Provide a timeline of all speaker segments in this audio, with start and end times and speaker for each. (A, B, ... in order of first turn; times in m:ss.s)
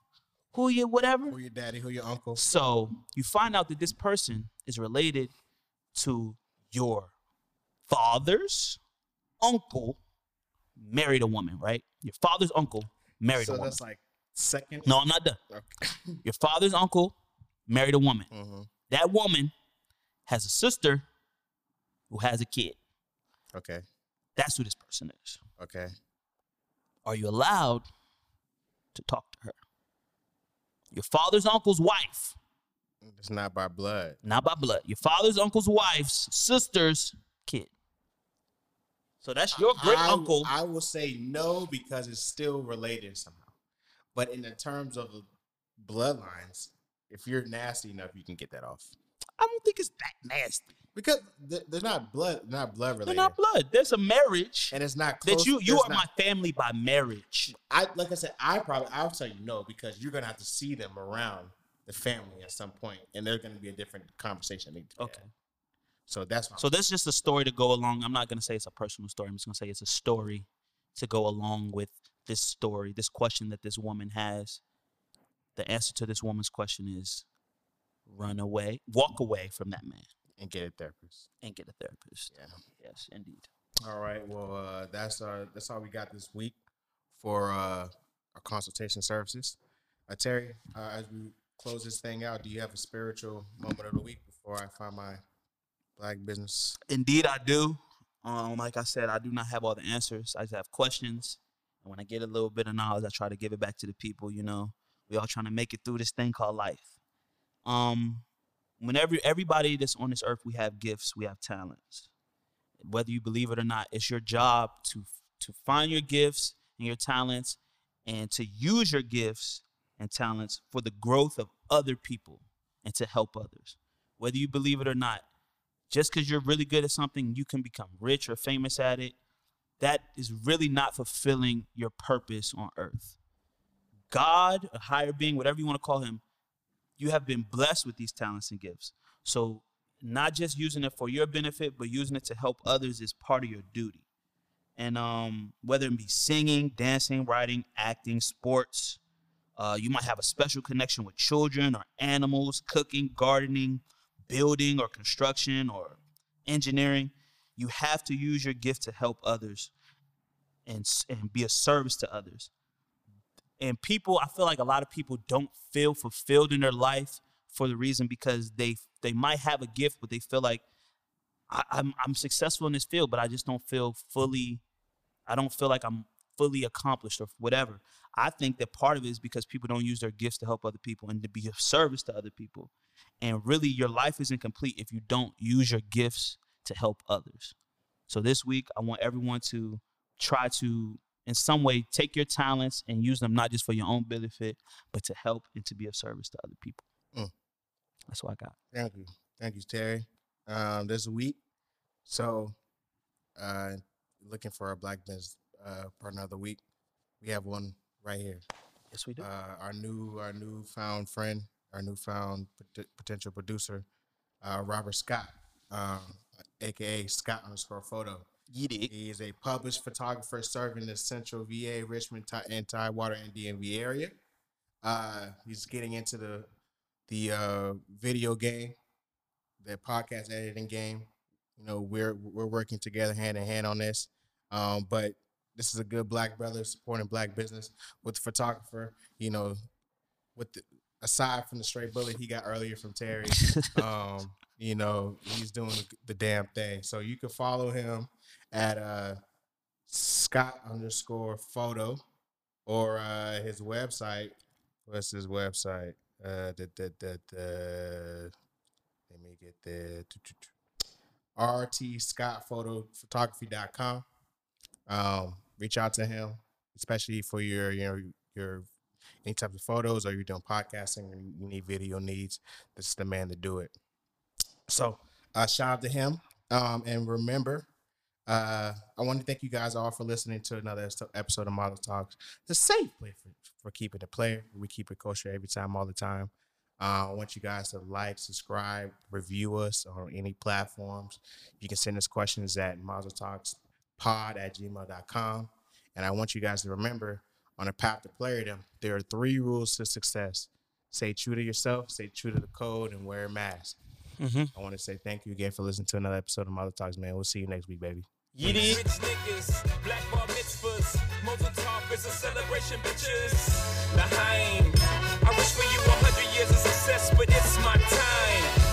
0:00.5-0:01.4 A
0:01.3-0:02.4 B
0:02.4-0:05.3 A
0:05.9-0:07.1 A
0:07.9-0:08.8 A
0:09.4-0:10.0 A
0:10.8-0:13.8 A
0:13.4-0:14.9 B
0:14.8-0:15.4 A
0:15.5-0:16.2 B
0:16.2-0:17.2 A
0:17.7-0:18.3 A
0:18.3-0:18.7 B
0:18.9-0:19.5 A
0:20.3-0:21.1 A
0:22.1-0:22.8 A
0:23.5-0:23.8 B
0:24.4-0:25.4 A
0:25.6-0:25.9 B
0:27.0-0:27.9 A
0:28.9-0:29.6 A
0:30.9-0:32.4 A
0:33.0-0:34.2 B
0:34.2-0:37.7 A
0:39.2-0:40.5 A
0:39.7-0:43.5 B
0:44.2-0:48.9 B
0:49.4-0:50.7 A
0:51.0-0:53.4 B
0:53.0-0:57.5 A
0:54.7-0:56.1 B
0:57.5-1:05.2 B
1:05.0-1:05.3 A
1:06.1-1:06.7 B
1:06.6-1:14.6 A
1:15.6-1:17.3 A
1:18.1-1:20.1 A
1:20.4-1:21.3 B
1:21.4-1:23.5 A
1:22.3-1:22.6 B
1:23.8-1:26.6 B
1:27.1-1:35.2 B
1:36.0-1:36.8 B
1:36.9-1:46.9 A
1:47.6-1:48.2 A
1:48.8-1:52.1 A
1:52.8-2:05.2 A
2:05.9-2:09.2 A
2:09.8-2:13.2 A
2:14.1-2:16.2 A
2:17.0-2:24.0 A
2:24.8-2:29.0 A
2:29.6-2:39.7 A
2:40.7-2:42.5 A
2:43.6-2:50.6 A
2:51.5-2:54.6 A
2:55.3-3:07.6 A
3:08.1-3:16.8 A
3:18.1-3:18.6 A
3:18.7-3:21.4 B
3:22.0-3:22.6 B
3:23.4-3:26.6 B
3:27.2-3:28.4 B
3:28.9-3:29.3 A
3:29.2-3:33.9 B
3:34.4-3:38.3 B
3:38.5-3:38.9 A
3:38.9-3:44.2 B
3:44.8-3:46.5 B
3:47.1-3:48.8 B
3:49.6-3:59.6 B
4:00.4-4:09.2 B
4:03.4-4:03.8 A
4:09.9-4:12.0 B
4:12.7-4:14.3 B
4:14.9-4:18.3 B
4:19.1-4:20.5 B
4:21.4-4:24.0 B
4:24.9-4:28.7 B
4:29.2-4:33.8 B
4:34.7-4:37.7 B
4:38.3-5:03.8 B
5:04.2-5:04.5 A
5:04.6-5:08.8 B
5:08.3-5:08.8 A
5:08.4-5:18.5 C